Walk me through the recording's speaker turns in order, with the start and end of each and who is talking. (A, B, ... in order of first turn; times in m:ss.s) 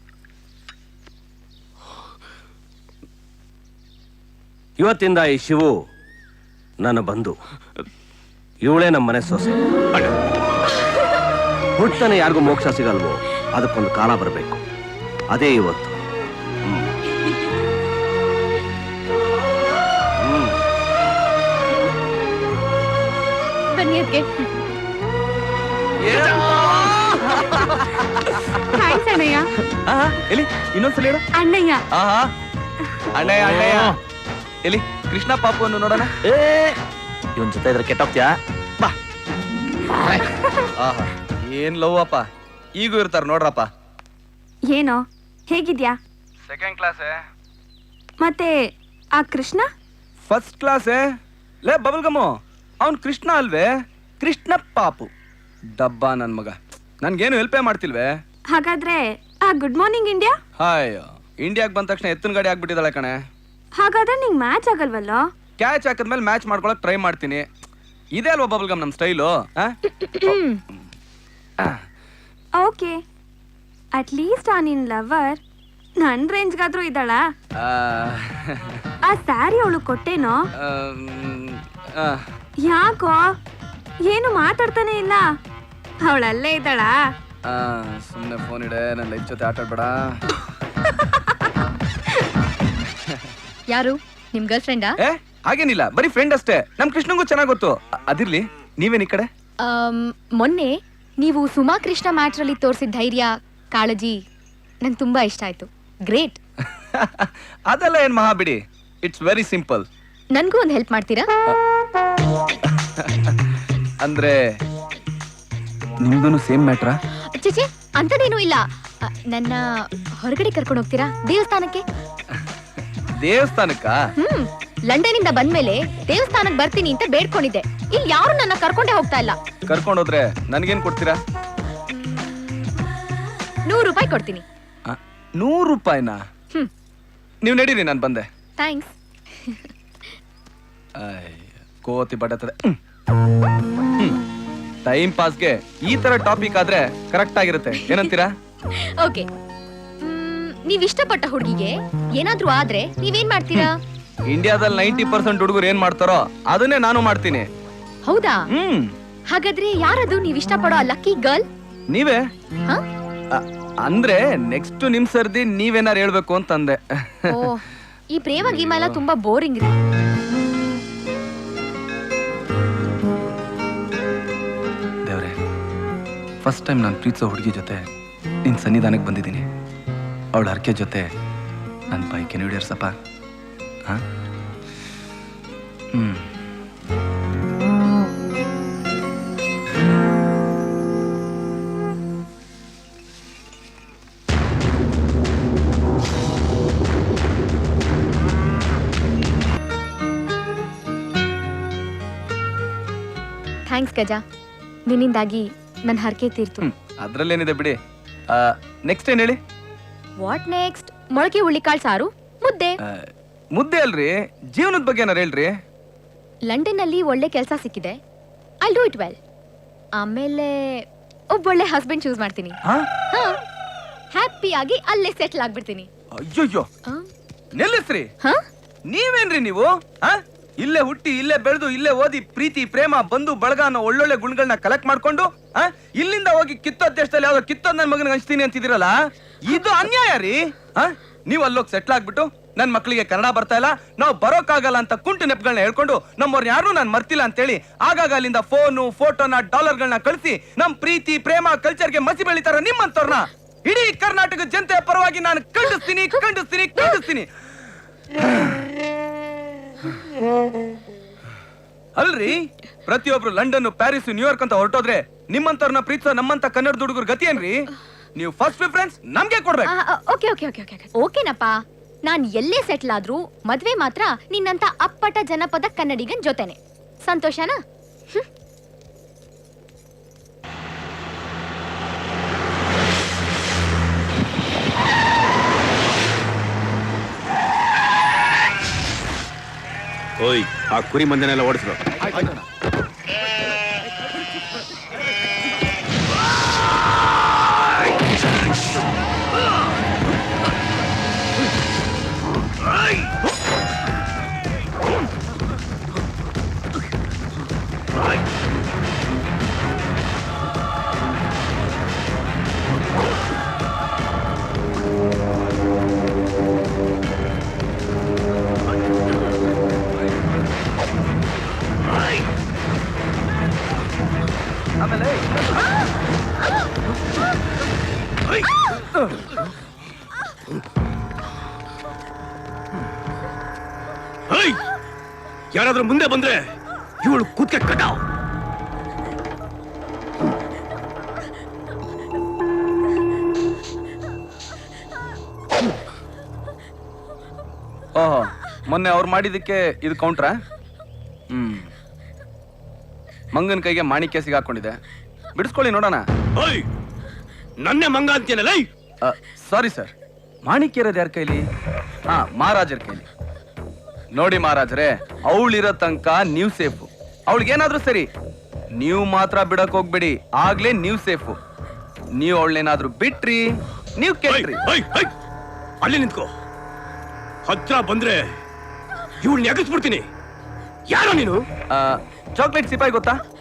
0:04.8-0:05.7 A
0:06.8-0:07.4 A
0:08.6-0:09.6 A
0:11.8-0:14.6 A
0:15.3-0:16.0 A
0:20.2-0:20.6 A
0:23.8-0:24.6 B
0:26.0-0:28.4 C
0:28.7-0:29.5 D
0:29.9-0:31.2 C
0:31.4-0:31.8 D
0:31.9-0:32.3 C
0:33.1-0:34.0 C
0:33.5-0:34.0 E
0:34.6-0:36.1 C
0:36.2-0:36.8 E
0:37.4-0:38.3 E
0:40.8-0:42.3 C
0:42.8-0:43.7 C
0:44.7-0:46.0 D
0:46.4-0:47.2 C
0:48.2-0:48.6 D
0:49.2-0:49.7 D
0:50.3-0:51.1 C
0:51.6-0:55.1 C
0:55.7-0:58.2 C
0:58.5-1:00.4 D
1:00.6-1:03.2 C
1:03.8-1:05.2 D
1:05.6-1:07.5 C
1:08.2-1:10.3 C
1:09.9-1:10.6 B
1:12.6-1:13.0 D
1:14.0-1:15.4 D
1:16.0-1:17.2 D
1:17.6-1:18.8 C
1:19.1-1:20.4 D
1:20.6-1:22.3 C
1:22.6-1:23.3 D
1:24.1-1:25.2 D
1:26.0-1:26.9 D
1:27.4-1:30.2 C
1:33.7-1:35.0 B
1:35.0-1:39.3 C
1:39.6-1:44.2 B
1:44.8-1:46.4 B
1:46.8-1:49.9 C
1:50.3-1:51.3 B
1:52.7-1:53.4 C
1:54.0-1:54.4 C
1:56.0-1:57.0 C
1:57.3-2:01.8 B
2:03.2-2:04.0 C
2:04.2-2:09.4 B
2:09.7-2:11.2 C
2:11.9-2:12.7 B
2:13.7-2:14.4 B
2:14.9-2:16.2 C
2:17.4-2:18.3 C
2:18.6-2:19.6 B
2:21.0-2:22.8 C
2:24.9-2:28.3 C
2:28.8-2:29.3 B
2:30.0-2:33.8 B
2:34.3-2:37.5 C
2:38.1-2:38.4 B
2:38.5-2:38.9 C
2:39.3-2:41.4 B
2:41.9-2:42.2 C
2:43.3-2:47.5 C
2:47.3-2:49.8 B
2:48.5-2:49.0 C
2:55.1-2:55.4 C
2:56.4-2:57.9 C
2:58.4-2:59.5 C
3:00.3-3:01.1 C
3:01.9-3:03.0 C
3:05.9-3:06.3 C
3:23.7-3:24.2 B
3:24.9-3:26.7 B
3:26.6-3:27.8 C
3:28.3-3:29.4 C
3:30.2-3:32.8 B
3:32.9-3:35.5 C
3:36.5-3:38.0 B
3:38.6-3:39.2 B
3:40.0-3:42.6 B
3:43.1-3:43.4 B
3:44.1-3:45.9 B
3:46.2-3:46.7 C
3:47.6-3:48.1 C
3:48.9-4:17.3 C
4:18.2-4:18.6 C
4:22.0-4:29.7 C
4:29.7-4:31.6 B
4:32.1-4:37.6 B
4:50.2-4:51.8 F
4:52.0-4:52.4 C
5:24.8-5:25.7 C
5:28.9-5:29.3 C
5:34.3-5:34.6 F
5:35.5-5:36.4 F
5:37.0-5:38.0 F
5:48.0-5:50.4 C
5:51.3-5:51.7 C
5:53.3-5:54.8 C
5:55.4-5:56.0 C
5:56.4-5:56.7 F
5:57.6-5:58.7 F
5:59.0-5:59.9 C
6:00.5-6:01.4 C
6:02.1-6:03.1 C
6:04.1-6:08.1 C
6:08.8-6:11.4 C
6:12.2-6:13.5 C
6:14.0-6:14.6 C
6:14.3-6:15.1 F
6:15.8-6:16.3 F
6:17.5-6:18.2 F
6:19.2-6:20.1 F
6:20.9-6:21.4 F
6:21.7-6:23.2 C